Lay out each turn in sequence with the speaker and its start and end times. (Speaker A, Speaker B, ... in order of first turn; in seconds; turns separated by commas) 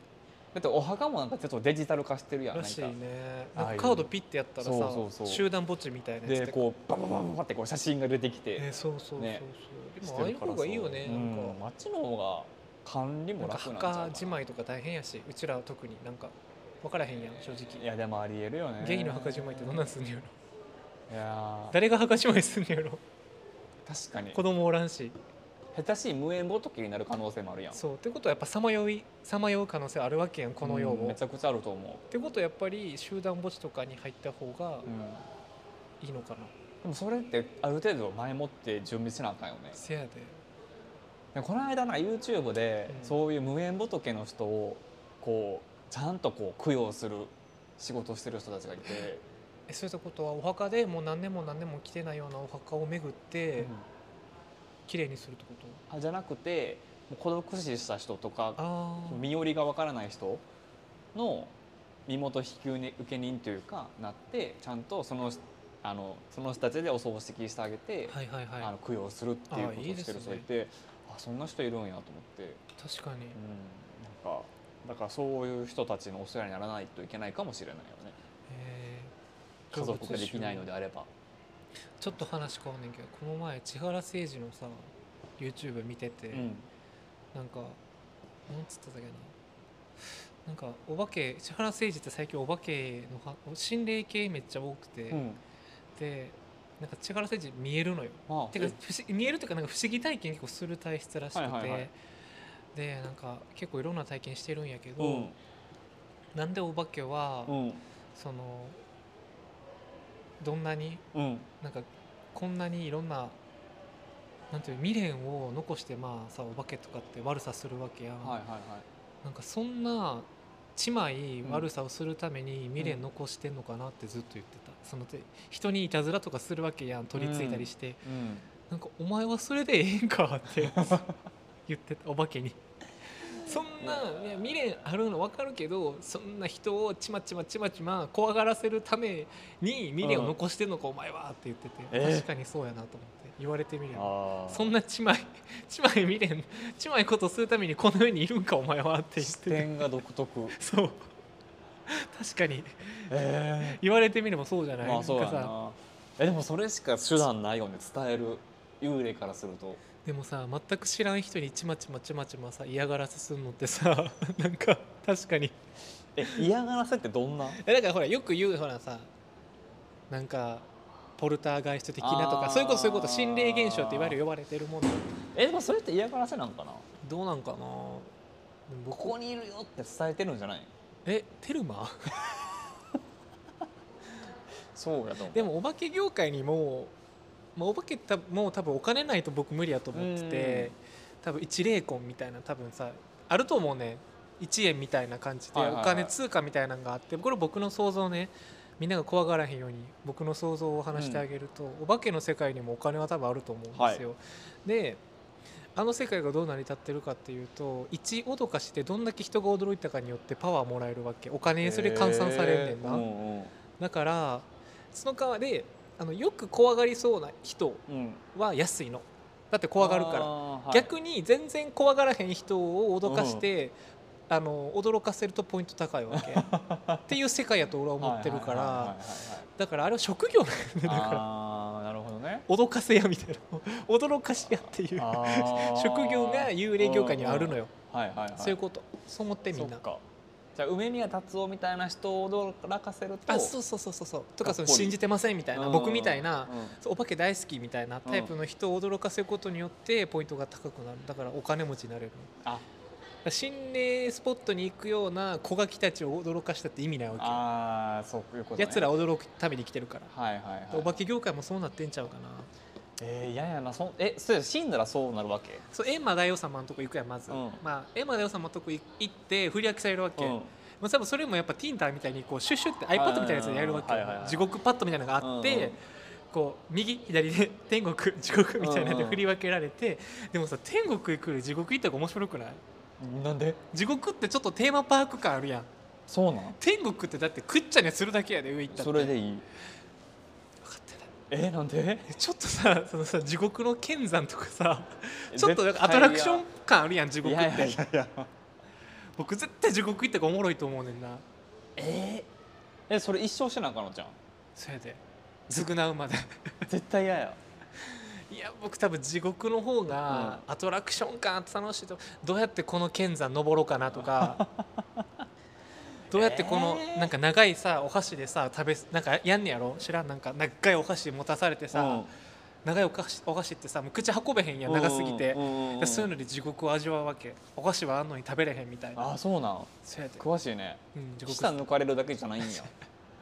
Speaker A: 0.5-2.9, Speaker B: 2.5-6.7, Speaker A: 3.5-5.5, Speaker A: 6.2-9.4, Speaker B: 8.6-11.6, Speaker A: 10.0-14.4, Speaker B: 13.4-17.8, Speaker A: 17.8-19.9, Speaker B: 18.8-20.3, Speaker A: 21.1-21.8, Speaker B: 21.7-23.0, Speaker A: 23.9-24.4, Speaker B: 24.3-25.1, Speaker A: 25.7-27.8, Speaker B: 27.7-31.2, Speaker A: 30.6-32.0, Speaker B: 32.1-34.9, Speaker A: 34.9-35.2, Speaker B: 36.0-36.5, Speaker A: 36.8-39.8, Speaker B: 39.7-40.4, Speaker A: 41.3-49.2, Speaker B: 42.9-43.2, Speaker B: 49.7-53.7, Speaker A: 53.6-53.8, Speaker B: 54.9-55.8, Speaker A: 55.9-60.4, Speaker B: 58.6-59.3, Speaker A: 61.1-61.5, Speaker A: 62.1-72.6, Speaker B: 68.1-68.7, Speaker B: 69.5-70.5, Speaker B: 72.8-73.4, Speaker A: 73.3-78.2, Speaker B: 78.5-79.1, Speaker B: 79.7-80.7, Speaker A: 79.7-81.1, Speaker B: 82.0-86.5, Speaker A: 86.3-86.7, Speaker B: 87.3-87.8, Speaker B: 88.5-89.3, Speaker B: 90.5-95.3, Speaker A: 95.1-95.4, Speaker B: 96.0-101.9, Speaker A: 98.3-98.8, Speaker A: 101.3-101.9, Speaker B: 102.7-105.3, Speaker A: 105.0-105.3, Speaker B: 106.3-107.6, Speaker A: 107.5-107.8, Speaker B: 108.1-108.8, Speaker B: 110.4-111.0, Speaker A: 111.1-111.5, Speaker B: 111.6-113.4, Speaker B: 114.5-118.4, Speaker A: 118.2-118.8, Speaker B: 119.2-128.0, Speaker A: 122.8-123.0, Speaker A: 127.1-128.5, Speaker B: 128.7-131.1, Speaker A: 130.7-131.0, Speaker B: 131.7-132.6, Speaker B: 133.2-149.9, Speaker A: 133.8-134.4, Speaker A: 140.0-140.3, Speaker A: 141.9-142.3, Speaker A: 143.9-144.7, Speaker A: 149.2-150.6, Speaker B: 150.5-151.1, Speaker B: 151.9-155.5, Speaker A: 153.1-153.8, Speaker A: 154.8-159.8, Speaker B: 160.0-165.5, Speaker A: 166.2-167.6, Speaker B: 167.6-169.1, Speaker B: 170.1-175.1, Speaker A: 172.0-174.2, Speaker A: 175.3-176.8, Speaker B: 177.0-178.1, Speaker B: 178.7-179.2, Speaker A: 178.9-180.7, Speaker B: 181.1-182.2, Speaker A: 184.7-185.5, Speaker B: 185.3-186.9, Speaker B: 187.6-205.0, Speaker A: 189.9-190.7, Speaker A: 195.5-196.1, Speaker A: 200.9-201.2, Speaker A: 203.7-204.0, Speaker B: 205.8-213.1, Speaker A: 211.6-213.5, Speaker B: 213.8-223.7, Speaker A: 217.9-218.2, Speaker A: 219.8-220.9, Speaker A: 223.0-223.4, Speaker B: 224.3-226.5, Speaker A: 226.1-227.1, Speaker B: 227.1-229.0, Speaker A: 228.0-229.5, Speaker B: 229.6-231.2, Speaker A: 230.8-232.4, Speaker B: 232.5-237.7, Speaker A: 234.9-238.6, Speaker B: 238.4-239.8, Speaker A: 239.5-240.0, Speaker A: 240.5-243.6, Speaker B: 243.3-252.3, Speaker A: 244.4-245.0, Speaker A: 245.5-246.8, Speaker A: 248.0-248.3, Speaker B: 253.2-257.4, Speaker A: 257.1-258.9, Speaker B: 258.6-260.1, Speaker A: 260.1-261.0, Speaker B: 260.7-262.5, Speaker A: 263.0-265.6, Speaker B: 265.7-282.6, Speaker A: 267.3-267.6, Speaker A: 270.2-270.5, Speaker A: 272.9-274.5, Speaker A: 275.2-275.8, Speaker A: 278.6-279.2, Speaker A: 283.0-283.6, Speaker B: 283.7-285.7, Speaker A: 286.1-286.6, Speaker B: 286.6-289.1, Speaker A: 288.7-289.4, Speaker B: 290.6-291.1, Speaker A: 291.3-292.1, Speaker B: 292.1-297.8, Speaker A: 295.3-296.4, Speaker A: 297.2-298.3, Speaker B: 299.2-301.2, Speaker A: 301.8-302.3, Speaker A: 302.9-304.2, Speaker B: 304.6-306.7, Speaker A: 306.6-307.4, Speaker B: 307.8-314.4, Speaker A: 310.1-310.4, Speaker A: 313.9-315.2, Speaker A: 316.1-317.1, Speaker B: 316.1-322.1, Speaker A: 321.7-322.1, Speaker B: 322.6-329.1, Speaker A: 324.6-326.1, Speaker A: 328.9-332.7, Speaker B: 329.8-330.2, Speaker B: 330.9-331.6